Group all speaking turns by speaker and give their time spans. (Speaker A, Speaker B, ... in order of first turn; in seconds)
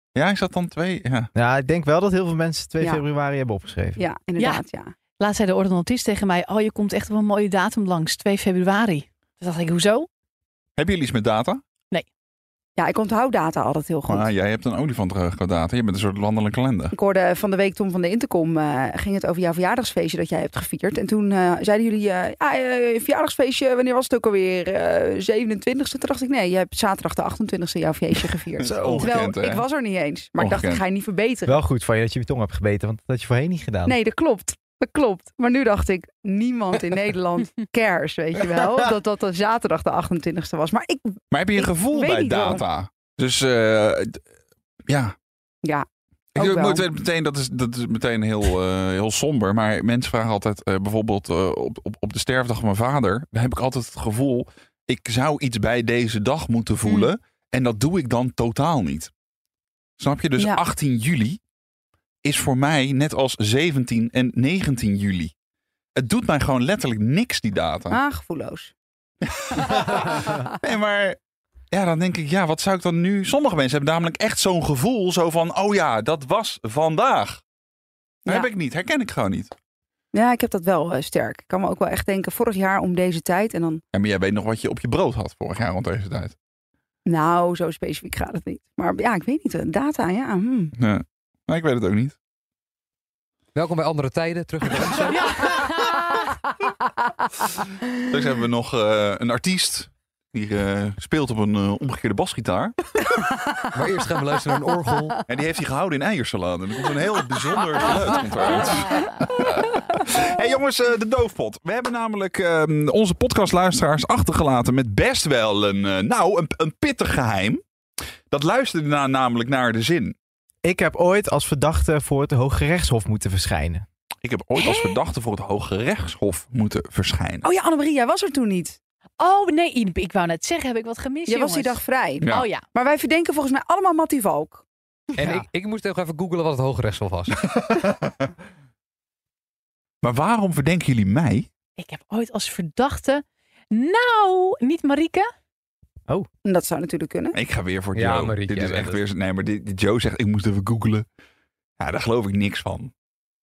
Speaker A: 0.1-1.3, 10.8-11.6, 14.1-16.9, 28.6-29.6, 30.4-30.8, 41.3-44.2, 44.9-45.1, 46.4-59.1, 60.0-61.4, 62.2-65.3, 66.0-68.0, 69.3-71.2, 71.7-77.4, 78.3-79.5, 83.9-86.3, 90.8-92.2, 98.0-102.8, 105.3-117.6, 118.3-120.2, 124.2-127.4, 132.2-132.5, 140.0-141.5, 147.3-151.1, 151.8-152.9
Speaker B: 1.4-4.0, 28.7-29.1, 31.5-34.0, 120.6-123.8
Speaker C: 4.0-4.9, 12.8-14.3, 16.9-31.6, 33.9-42.6, 45.6-46.9, 60.4-60.6, 67.9-68.7, 80.1-83.8, 87.1-90.7, 127.4-128.8, 131.3-134.6, 146.4-147.4
Speaker D: 4.4-4.6, 5.2-10.1, 95.1-96.3, 108.5-109.1, 124.5-125.0, 129.2-132.7, 141.8-145.3
Speaker E: 93.5-95.6, 103.7-105.2, 135.2-137.5, 147.9-149.0